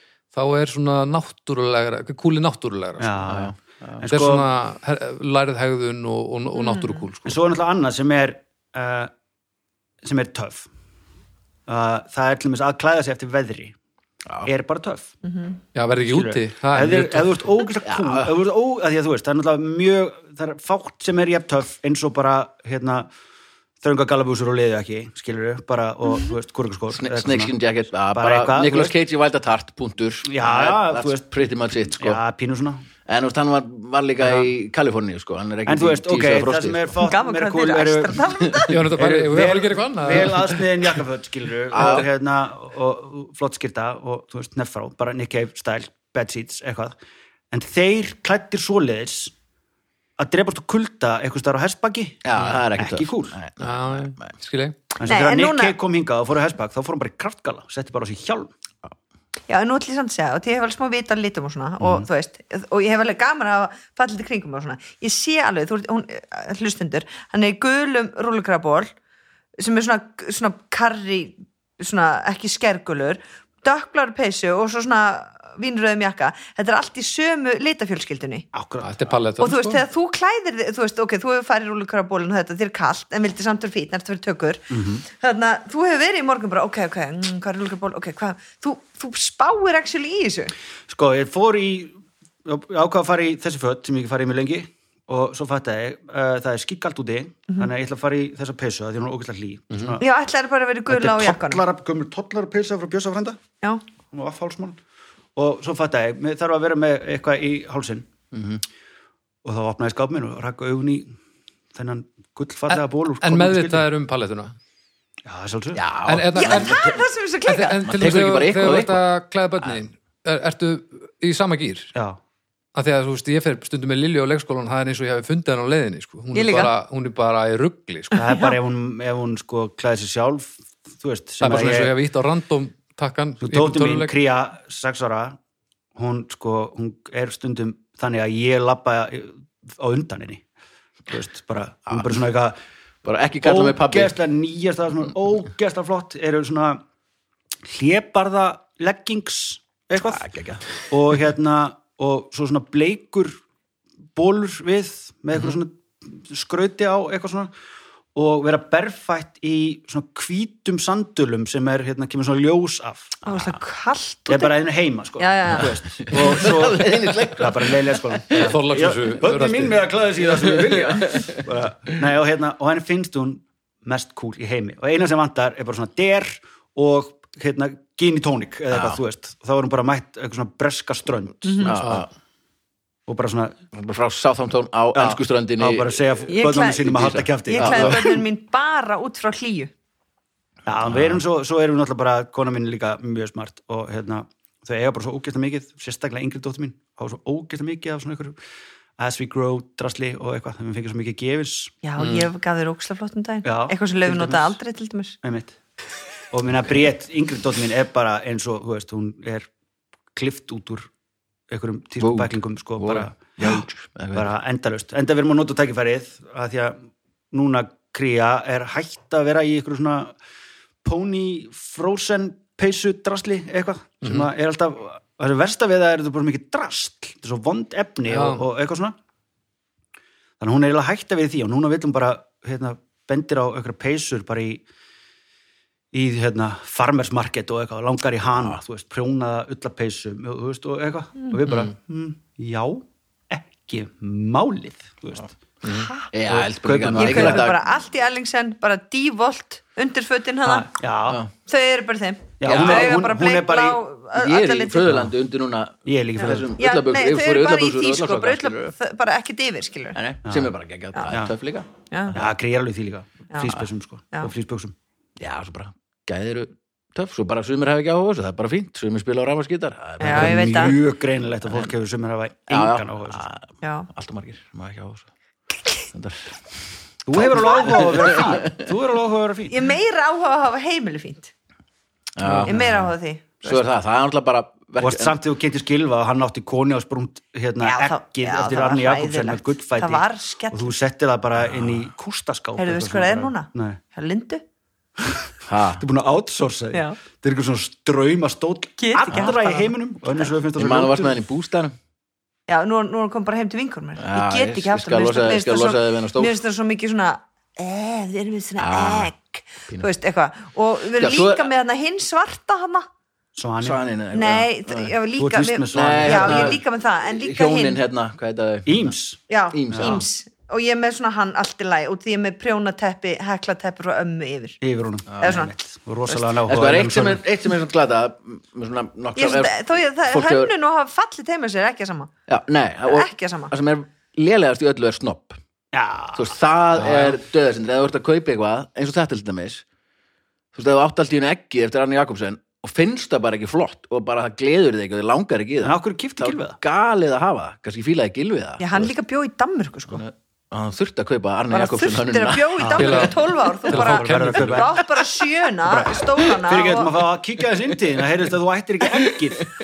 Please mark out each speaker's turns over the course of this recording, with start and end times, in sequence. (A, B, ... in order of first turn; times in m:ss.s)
0:00.3-0:03.2 A
0:03.0-0:04.5 B
0:03.3-0:04.0 C
0:04.1-0:07.4 A
0:06.5-0:07.0 D
0:07.2-0:09.1 B
0:10.0-0:10.7 B
0:11.7-0:13.7 B
0:14.4-0:15.1 B
0:15.2-0:15.6 D
0:15.7-0:17.4 A
0:16.0-0:23.1 B
0:17.8-0:18.3 C
0:23.8-0:27.5 B
0:26.9-0:32.2 C
0:28.1-0:28.9 B
0:30.2-0:31.3 B
0:32.0-0:32.8 B
0:33.0-0:36.9 C
0:35.6-0:38.2 B
0:37.0-0:38.8 D
0:38.4-0:38.7 C
0:38.7-0:40.5 A
0:38.9-0:47.0 B
0:41.7-0:42.1 C
0:47.5-0:49.3 B
0:50.2-0:53.4 B
0:52.2-0:54.4 C
0:53.6-0:54.8 A
0:55.0-0:58.5 B
0:55.0-0:55.8 D
0:59.5-1:08.9 D
1:01.8-1:02.0 B
1:09.6-1:18.5 D
1:18.5-1:19.2 B
1:18.8-1:19.8 A
1:19.4-1:30.5 D
1:24.7-1:25.0 B
1:30.9-1:40.0 B
1:39.7-1:40.0 A
1:40.0-1:41.6 D
1:40.9-1:43.4 B
1:44.1-1:44.8 B
1:45.4-1:48.1 B
1:48.3-1:48.6 C
1:49.4-1:51.1 B
1:51.7-1:53.8 B
1:52.7-1:54.5 A
1:55.2-1:55.8 B
1:55.7-1:57.0 C
1:56.0-1:56.8 A
1:56.3-1:57.9 D
1:57.5-2:01.9 A
1:57.8-1:59.0 C
2:02.7-2:08.2 A
2:06.3-2:06.7 D
2:08.1-2:11.9 B
2:08.2-2:08.5 D
2:11.4-2:14.1 A
2:13.4-2:15.4 B
2:16.0-2:20.4 B
2:21.1-2:22.6 B
2:23.0-2:24.1 C
2:23.4-2:26.8 B
2:27.6-2:30.3 B
2:30.1-2:30.8 C
2:30.8-2:33.4 B
2:34.1-2:37.5 B
2:38.1-2:43.2 B
2:43.2-2:44.5 D
2:43.3-2:43.6 C
2:44.3-3:01.8 B
2:45.2-2:45.8 D
2:46.0-2:48.5 C
2:48.4-2:49.8 A
2:50.3-2:52.0 C
2:58.7-2:59.0 C
3:01.4-3:01.8 D
3:01.6-3:02.1 C
3:03.1-3:03.6 B
3:03.7-3:08.2 C
3:04.9-3:08.1 B
3:06.3-3:09.7 D
3:10.6-3:18.4 B
3:10.9-3:11.2 C
3:19.0-3:21.7 B
3:21.8-3:25.2 D
3:22.0-3:22.3 A
3:23.4-3:24.6 B
3:25.2-3:25.6 B
3:26.3-3:29.5 B
3:30.1-3:30.9 B
3:31.5-3:40.1 B
3:32.0-3:34.3 C
3:40.8-3:48.9 B
3:44.0-3:44.3 A
3:48.1-3:48.4 A
3:50.4-3:54.6 B
3:55.9-4:05.3 B
4:05.6-4:05.9 A
4:05.6-4:06.1 D
4:06.1-4:07.6 C
4:06.3-4:07.5 B
4:07.0-4:10.7 D
4:10.4-4:11.2 B
4:11.5-4:14.9 D
4:12.4-4:13.8 B
4:12.4-4:13.0 C
4:14.1-4:18.7 C
4:14.8-4:15.1 B
4:15.8-4:16.5 B
4:16.2-4:20.0 D
4:19.9-4:22.2 C
4:20.2-4:20.5 B
4:21.9-4:22.2 D
4:22.1-4:24.7 B
4:25.2-4:30.8 C
4:30.0-4:30.8 D
4:30.0-4:33.2 B
4:32.5-4:35.1 C
4:33.6-4:33.9 D
4:35.9-4:36.6 C
4:37.0-4:39.5 B
4:37.1-4:38.6 C
4:37.2-4:38.2 D
4:39.5-4:41.3 D
4:42.2-4:45.1 C
4:42.2-4:42.7 B
4:42.4-4:43.6 D
4:44.8-4:53.8 B
4:47.6-4:50.7 D
4:52.6-4:54.4 D
4:55.0-5:01.2 B
4:55.5-4:55.8 C
4:58.8-4:59.7 D
5:00.6-5:01.7 C
5:02.5-5:12.9 D
5:04.0-5:06.3 C
5:08.6-5:09.1 C
5:11.0-5:11.5 C
5:13.3-5:13.8 B
5:13.6-5:14.9 C
5:14.1-5:17.8 D
5:15.2-5:16.6 B
5:15.7-5:18.9 C
5:18.6-5:19.2 B
5:19.3-5:24.6 D
5:19.5-5:20.0 C
5:19.7-5:20.0 B
5:24.6-5:27.2 B
5:25.1-5:25.4 C
5:25.2-5:25.5 D
5:26.4-5:30.5 C
5:29.2-5:32.1 D
5:32.3-5:35.4 C
5:32.8-5:33.5 D
5:35.7-5:37.0 B
5:36.1-5:39.6 C
5:40.5-5:48.9 C
5:45.6-5:46.6 B
5:48.6-5:50.0 D
5:49.9-5:53.0 C
5:51.5-5:56.9 D
5:52.6-5:53.1 B
5:52.8-5:54.7 A
5:53.7-5:54.8 B
5:55.6-5:59.5 B